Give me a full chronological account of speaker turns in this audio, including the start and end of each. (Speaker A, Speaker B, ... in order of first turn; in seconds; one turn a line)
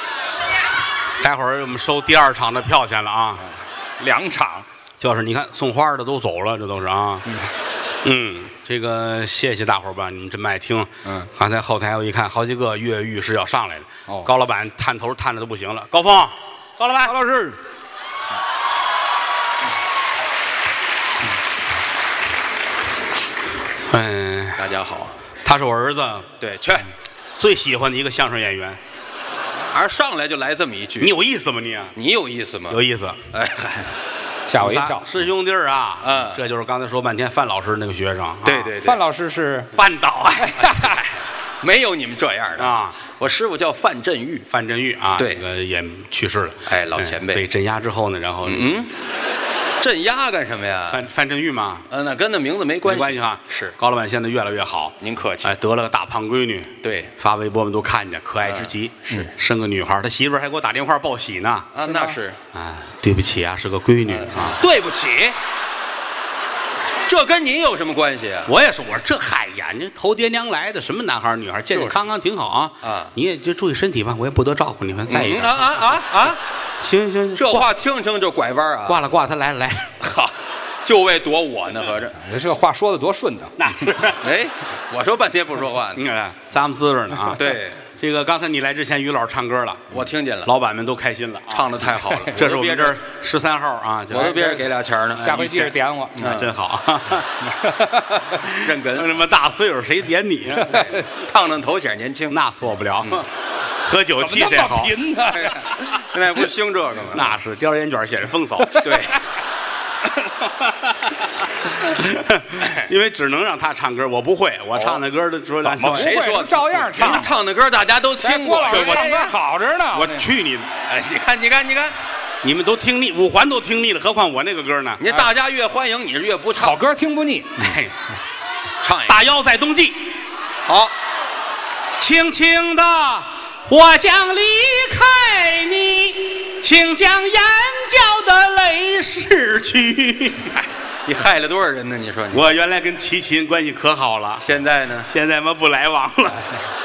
Speaker A: 1.2-3.5
Speaker B: 4.0-4.7
Speaker A: 5.0-7.2
Speaker A: 8.0-17.1
Speaker B: 17.1-17.6
Speaker A: 23.9-24.6
Speaker C: 24.6-25.1
Speaker A: 25.4-26.3
Speaker C: 26.4-26.9
Speaker A: 27.4-28.8
Speaker C: 29.7-31.1
Speaker A: 31.0-31.9
Speaker C: 32.0-32.8
Speaker A: 32.7-33.2
Speaker C: 33.3-33.9
Speaker B: 34.5-35.0
Speaker A: 34.6-38.7
Speaker C: 36.0-36.4
Speaker C: 38.4-39.0
Speaker B: 38.8-39.7
Speaker A: 39.7-40.7
Speaker C: 40.6-44.5
Speaker A: 42.6-43.0
Speaker A: 44.5-48.8
Speaker C: 45.2-45.4
Speaker C: 46.7-47.5
Speaker C: 48.5-48.9
Speaker C: 49.8-51.0
Speaker A: 50.9-51.9
Speaker C: 51.9-53.7
Speaker A: 52.9-61.8
Speaker C: 55.0-55.5
Speaker C: 56.8-57.1
Speaker C: 58.5-59.3
Speaker C: 61.7-62.4
Speaker A: 62.5-64.6
Speaker C: 64.2-65.4
Speaker C: 67.1-68.5
Speaker A: 68.5-75.8
Speaker C: 71.7-72.0
Speaker C: 72.8-73.1
Speaker C: 75.1-76.4
Speaker A: 76.8-77.7
Speaker C: 77.4-79.0
Speaker A: 78.9-79.9
Speaker C: 80.0-80.3
Speaker C: 80.8-82.2
Speaker B: 82.2-83.7
Speaker A: 83.6-84.2
Speaker C: 84.2-86.0
Speaker A: 86.0-89.9
Speaker C: 87.3-87.8
Speaker C: 89.9-90.5
Speaker A: 90.5-91.7
Speaker C: 91.5-93.0
Speaker A: 92.3-94.6
Speaker C: 94.1-96.5
Speaker B: 94.3-94.7
Speaker B: 95.2-96.3
Speaker A: 96.2-97.3
Speaker B: 97.6-98.2
Speaker A: 98.3-100.8
Speaker C: 98.6-99.1
Speaker C: 100.7-102.4
Speaker A: 102.3-103.3
Speaker A: 103.8-105.0
Speaker B: 104.2-105.8
Speaker C: 105.5-107.3
Speaker A: 107.1-108.9
Speaker C: 108.8-109.2
Speaker A: 111.8-116.2
Speaker C: 114.8-115.0
Speaker B: 115.7-117.3
Speaker C: 115.8-119.3
Speaker A: 117.0-117.3
Speaker B: 118.2-120.3
Speaker A: 118.7-119.1
Speaker A: 119.9-120.7
Speaker C: 120.9-122.0
Speaker A: 122.4-125.0
Speaker C: 125.0-126.8
Speaker B: 126.5-127.8
Speaker A: 127.6-127.9
Speaker C: 128.8-129.2
Speaker A: 129.1-130.1
Speaker C: 130.7-130.9
Speaker A: 132.0-140.5
Speaker C: 141.1-142.4
Speaker A: 142.3-144.4
Speaker C: 144.4-145.1
Speaker A: 145.1-146.5